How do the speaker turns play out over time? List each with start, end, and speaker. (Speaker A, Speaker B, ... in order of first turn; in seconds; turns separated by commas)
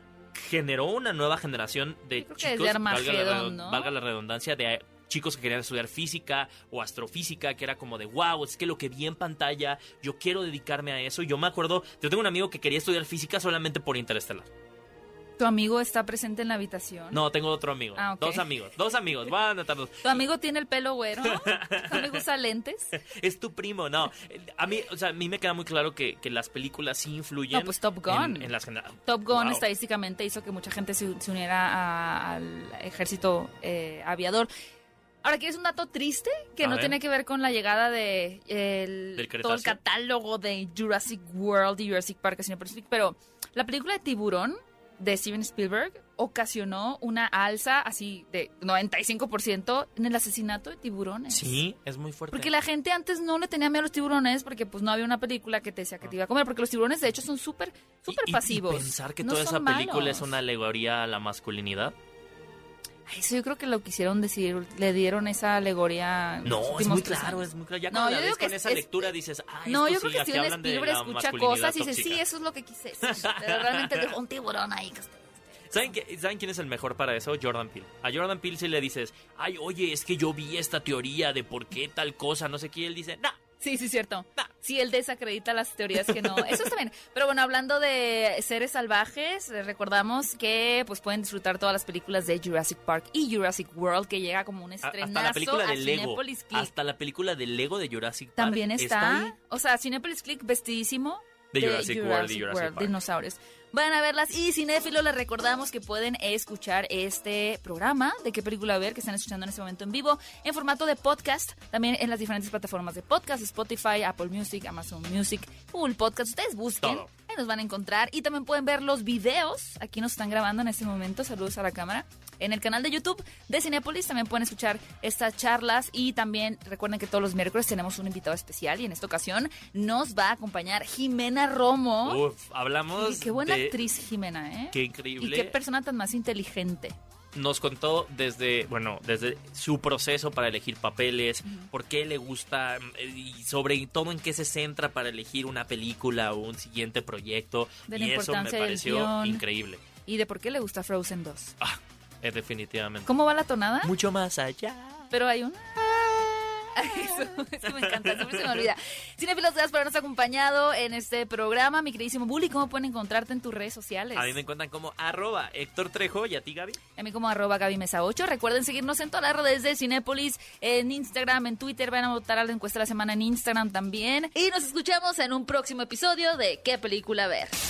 Speaker A: 0.3-14.5, Speaker B: 2.2-3.9, Speaker B: 15.4-17.2, Speaker A: 17.1-20.2, Speaker B: 17.9-18.4, Speaker B: 20.0-23.0, Speaker A: 21.2-22.2, Speaker A: 23.0-29.6, Speaker B: 27.5-28.5, Speaker B: 29.1-34.5, Speaker B: 35.2-51.6, Speaker A: 36.6-37.0, Speaker A: 39.2-39.8, Speaker A: 51.3-52.5, Speaker B: 52.3-60.3, Speaker A: 58.1-61.9, Speaker B: 63.1-69.1, Speaker A: 66.4-72.2, Speaker B: 69.7-75.9, Speaker A: 73.0-74.1, Speaker A: 75.7-83.3, Speaker B: 83.6-96.7, Speaker A: 86.0-86.6, Speaker A: 94.8-99.3, Speaker B: 98.4-132.2, Speaker A: 101.5-102.9, Speaker A: 116.8-117.1, Speaker A: 132.0-133.8, Speaker B: 132.9-136.9, Speaker A: 134.7-135.5, Speaker A: 137.3-149.8, Speaker B: 147.9-149.4, Speaker B: 150.1-151.5, Speaker A: 151.6-153.1, Speaker B: 153.1-153.9, Speaker A: 153.8-155.1, Speaker B: 155.1-164.4, Speaker A: 156.9-158.7, Speaker A: 164.2-166.8, Speaker B: 167.0-177.6